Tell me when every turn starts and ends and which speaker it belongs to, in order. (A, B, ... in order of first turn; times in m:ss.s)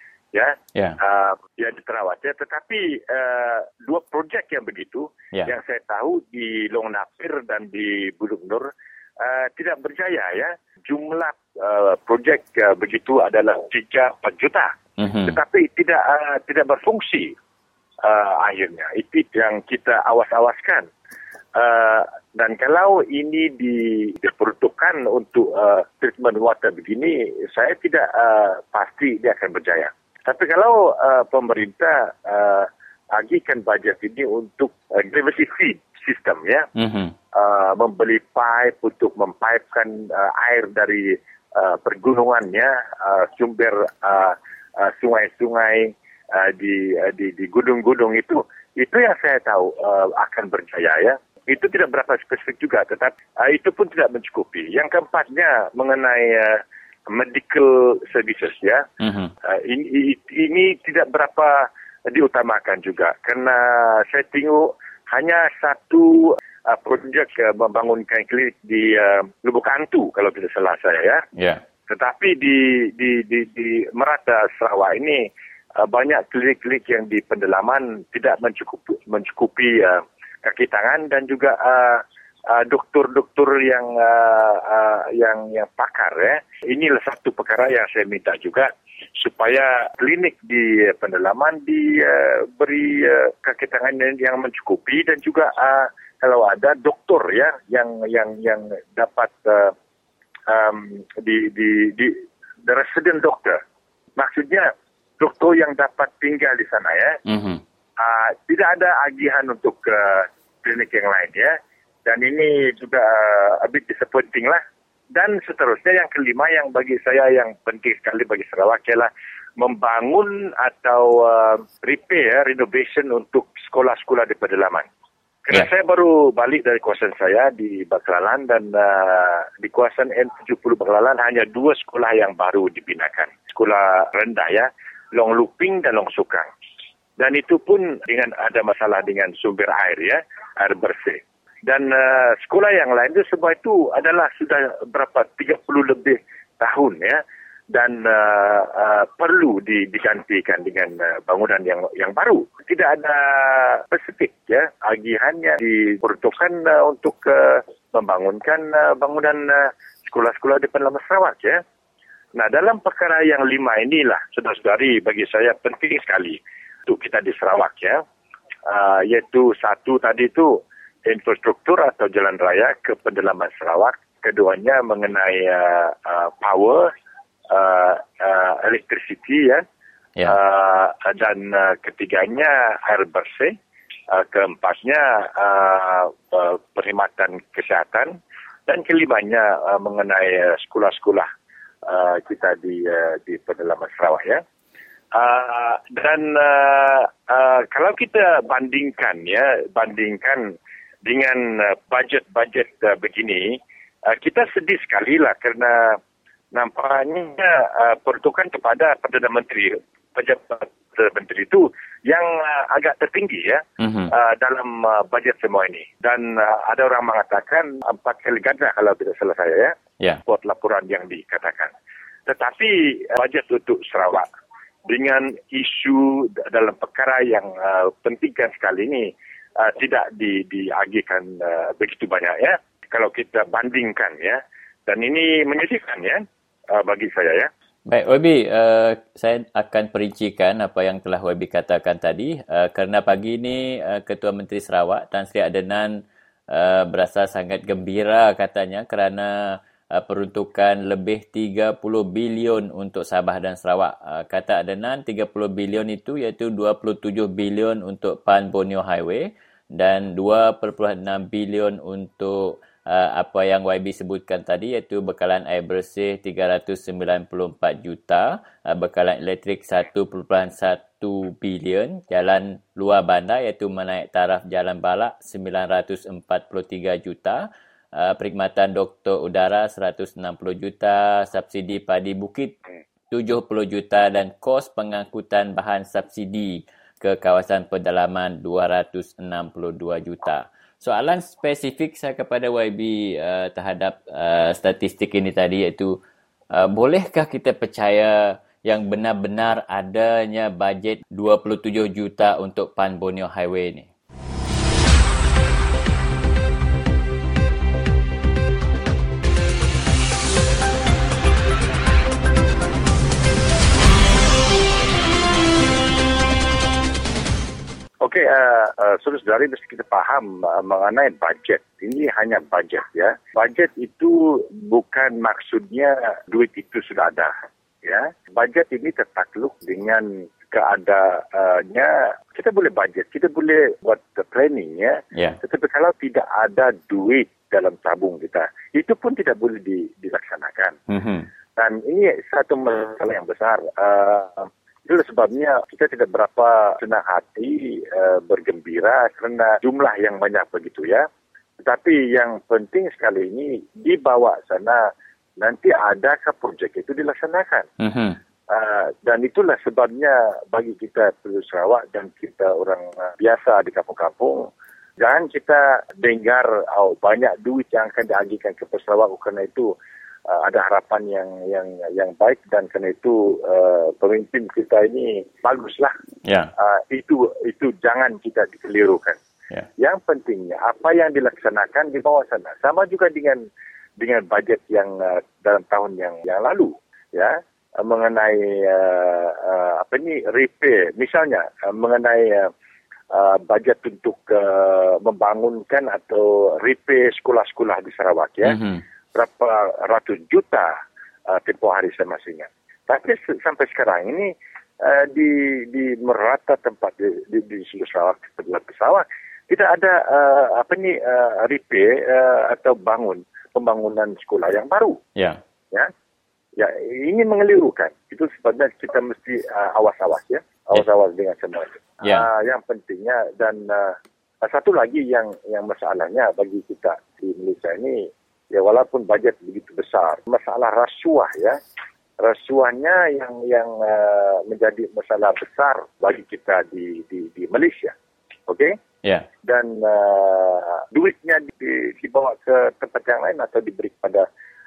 0:00.3-0:08.7 A
0:09.2-0:17.3 A
0:15.0-0:15.4 B
0:18.0-0:20.9 A
0:21.6-0:36.7 A
0:36.8-0:37.1 B
0:37.4-0:58.9 A
0:59.0-0:59.3 B
0:59.5-1:11.2 A
1:11.4-1:11.6 B
1:11.9-1:15.2 A
1:15.8-1:22.0 A
1:22.5-1:28.7 A
1:29.2-1:39.7 A
1:40.5-1:42.2 A
1:42.7-1:43.6 A
1:44.2-1:47.2 A
1:47.3-1:47.6 B
1:48.0-1:51.5 A
1:52.1-1:54.6 A
1:55.1-1:59.1 A
1:59.6-2:04.9 A
2:05.5-2:16.5 A
2:17.2-2:27.2 A
2:27.7-2:41.6 A
2:42.4-2:48.0 A
2:48.7-2:56.9 A
2:57.5-2:59.6 A
3:00.2-3:03.6 A
3:04.2-3:08.1 A
3:08.7-3:11.3 A
3:11.9-3:14.4 A
3:15.1-3:20.4 A
3:21.0-3:23.6 A
3:24.1-3:26.0 A
3:26.5-3:39.8 A
3:33.8-3:34.1 B
3:40.3-3:41.7 A
3:42.3-3:44.3 A
3:44.9-3:49.1 A
3:49.6-3:56.2 A
3:56.8-3:57.5 A
3:57.9-4:06.0 B
4:06.5-4:42.6 B
4:43.1-4:56.0 B
4:56.5-5:03.9 B
5:18.0-5:27.3 A
5:27.8-5:40.8 A
5:40.9-5:41.3 B
5:41.6-5:51.1 A
5:51.6-5:54.8 A
5:55.4-5:57.6 A
5:57.8-5:58.2 B
5:58.5-6:04.5 A
6:05.0-6:09.7 A
6:10.3-6:15.9 A
6:16.2-6:16.5 B
6:16.6-6:19.2 A
6:19.8-6:23.4 A
6:24.0-6:32.5 A
6:33.1-6:38.6 A
6:38.5-6:38.8 B
6:39.2-6:40.7 A
6:41.3-6:44.3 A
6:44.8-6:55.0 A
6:56.6-7:08.0 A
7:08.5-7:11.6 A
7:12.2-7:17.9 A
7:18.5-7:18.7 A
7:19.4-7:24.2 A